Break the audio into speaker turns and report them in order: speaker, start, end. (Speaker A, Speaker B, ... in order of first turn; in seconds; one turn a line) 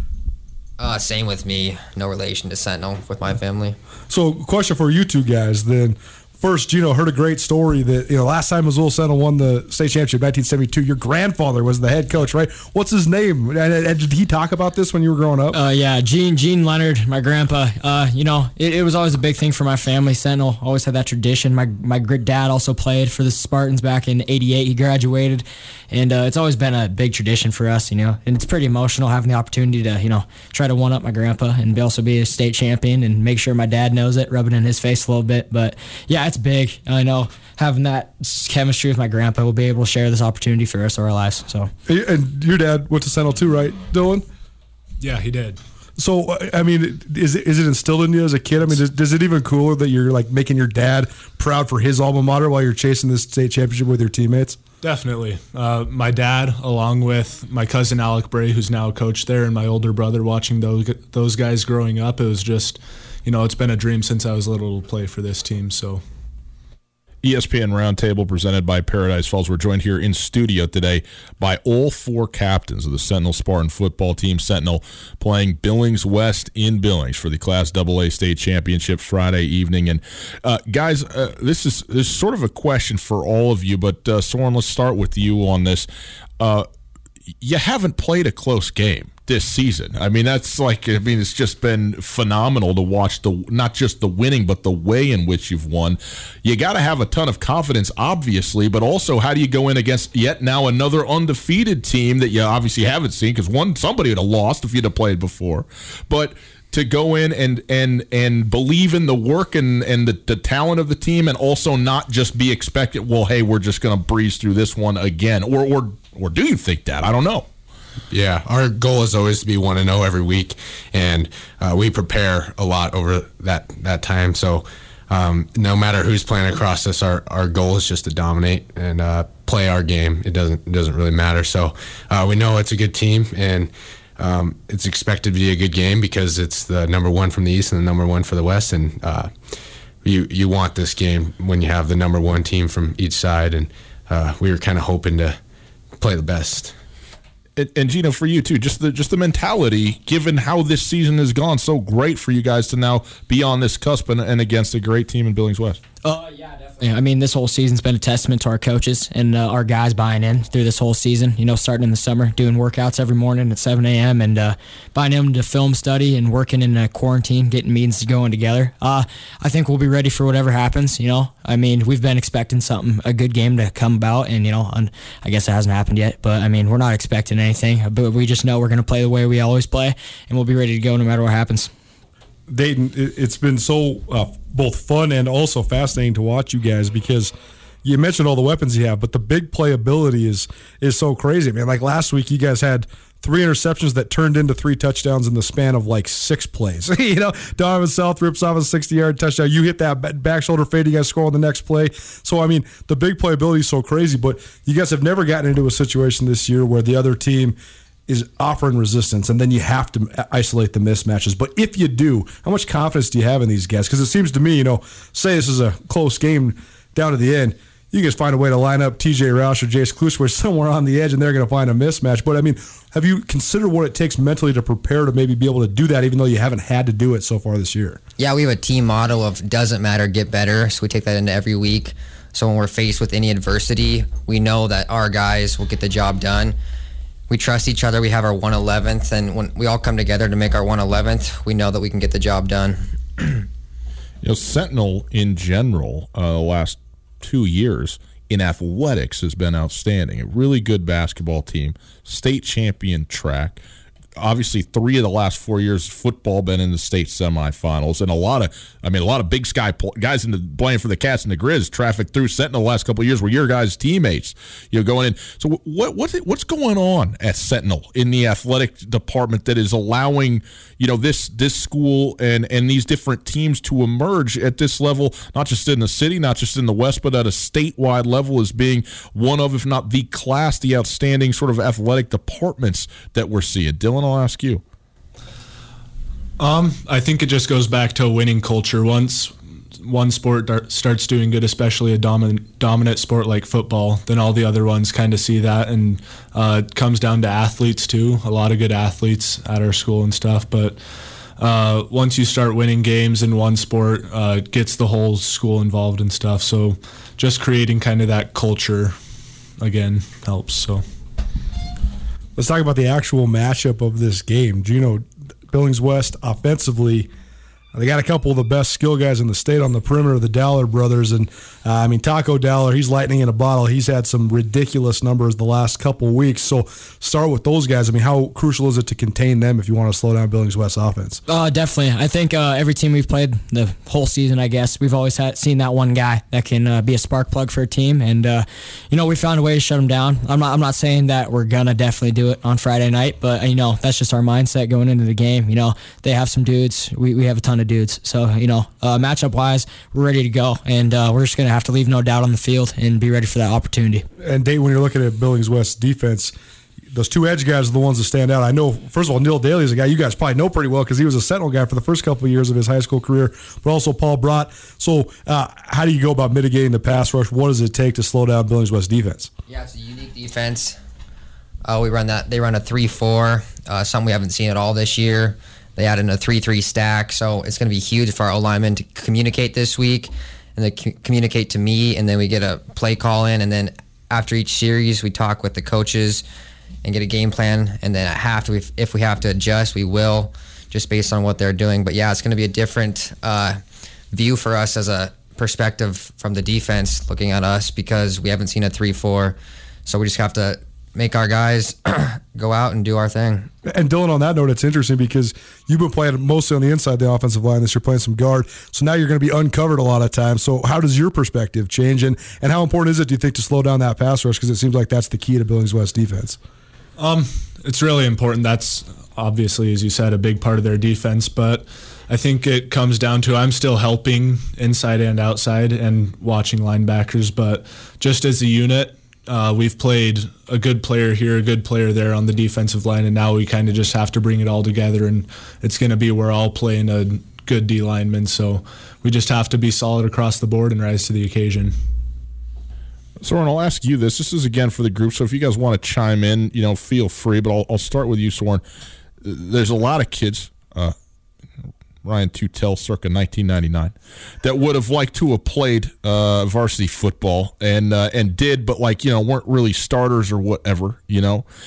Speaker A: 0.8-3.8
Speaker B: 4.1-15.6
Speaker C: 15.5-41.7
Speaker B: 41.9-44.2
Speaker D: 45.0-45.6
Speaker B: 46.0-54.6
Speaker D: 54.8-66.0
Speaker E: 67.2-85.9
Speaker E: 86.4-86.7
Speaker E: 87.4-117.5
Speaker F: 118.1-139.3
Speaker F: 140.0-145.4
Speaker F: 146.0-146.8
Speaker E: 147.6-155.8
Speaker C: 156.0-181.7
Speaker B: 182.5-187.3
Speaker B: 187.8-207.6
Speaker B: 208.1-228.0
Speaker A: 228.2-236.6
Speaker A: 237.3-243.4
Speaker E: 244.2-253.6
Speaker E: 254.2-284.6
Speaker D: 286.4-300.8
Speaker D: 301.4-309.0
Speaker D: 309.6-310.8
Speaker B: 312.4-317.1
Speaker B: 317.7-331.2
Speaker C: 331.3-354.1
Speaker B: 354.2-356.3
Speaker B: 356.9-369.3
Speaker A: 369.5-370.8
Speaker A: 371.6-386.2
Speaker A: 386.8-393.6
Speaker A: 394.1-403.5
Speaker B: 403.6-416.4
Speaker D: 417.0-441.8
Speaker E: 443.2-448.6
Speaker E: 449.2-450.9
Speaker E: 452.0-461.5